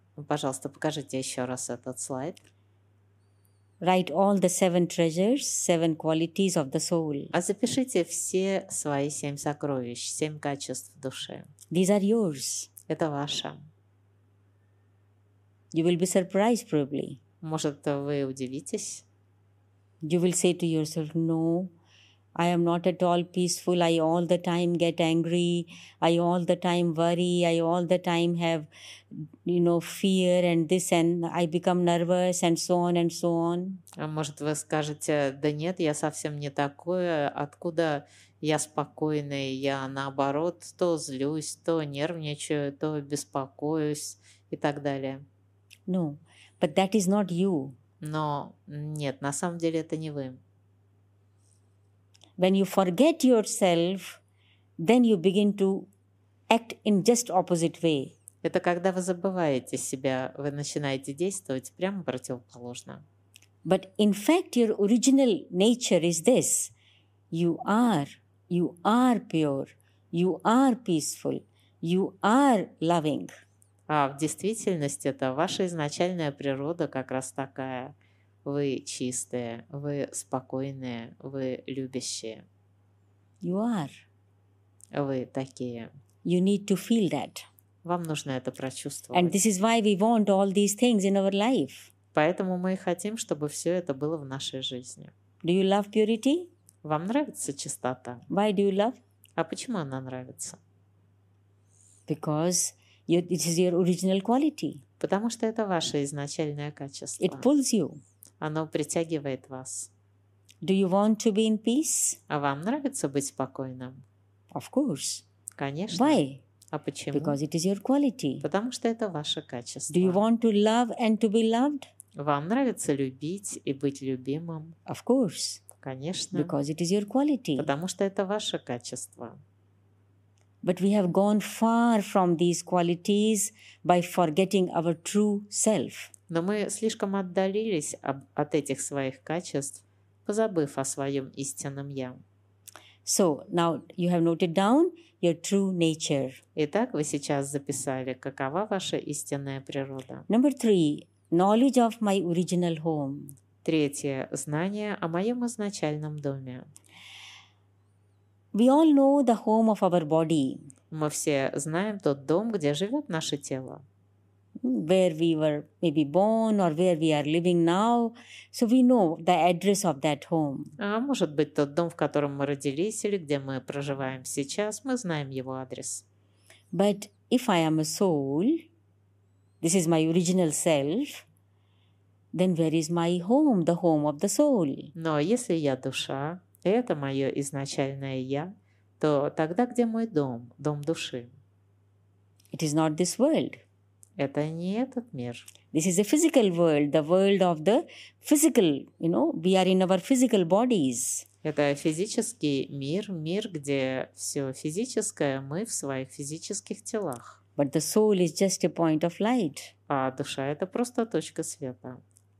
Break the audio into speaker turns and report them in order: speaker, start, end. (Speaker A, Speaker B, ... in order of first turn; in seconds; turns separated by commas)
Speaker A: 0.2-2.4, Speaker B: 3.8-7.3, Speaker A: 7.3-11.5, Speaker B: 11.7-12.7, Speaker A: 12.9-13.6, Speaker B: 15.7-17.2, Speaker A: 17.4-19.0, Speaker B: 20.0-21.7, Speaker B: 22.3-33.8, Speaker A: 34.0-45.2, Speaker B: 45.9-47.8, Speaker A: 48.0-50.4, Speaker B: 52.4-54.2, Speaker B: 54.8-55.9, Speaker B: 56.5-58.1, Speaker A: 58.4-63.0, Speaker B: 63.6-66.7, Speaker B: 67.3-73.4, Speaker A: 73.9-82.4, Speaker B: 83.4-84.0, Speaker A: 84.9-85.9, Speaker B: 86.2-87.4, Speaker A: 87.8-89.4, Speaker B: 89.1-91.9, Speaker A: 92.1-95.1, Speaker B: 95.4-96.5, Speaker A: 96.8-98.2, Speaker B: 98.3-99.0, Speaker A: 99.4-100.6, Speaker B: 102.1-104.8, Speaker A: 105.0-107.5, Speaker B: 107.2-108.0, Speaker A: 108.4-109.9, Speaker B: 110.6-112.2, Speaker A: 112.3-114.0, Speaker B: 114.5-115.2, Speaker A: 115.6-117.4, Speaker B: 115.9-116.4, Speaker B: 117.1-118.5, Speaker A: 118.4-120.2, Speaker B: 119.9-121.9, Speaker A: 122.2-124.8, Speaker B: 124.9-125.6, Speaker A: 125.8-126.5, Speaker B: 126.3-127.7, Speaker A: 127.6-129.4, Speaker B: 130.6-136.1, Speaker A: 136.3-142.2, Speaker B: 143.0-146.4, Speaker A: 146.6-150.3, Speaker B: 150.3-153.3, Speaker A: 153.6-156.7, Speaker B: 158.5-160.7, Speaker A: 160.9-163.8, Speaker B: 164.6-170.7, Speaker A: 170.8-176.0, Speaker B: 176.7-178.7, Speaker B: 179.6-181.2, Speaker B: 182.3-184.9, Speaker A: 184.9-191.3, Speaker B: 192.5-193.6, Speaker A: 194.2-195.5, Speaker B: 195.7-201.2, Speaker A: 201.4-207.4, Speaker B: 207.6-209.7, Speaker A: 209.9-212.0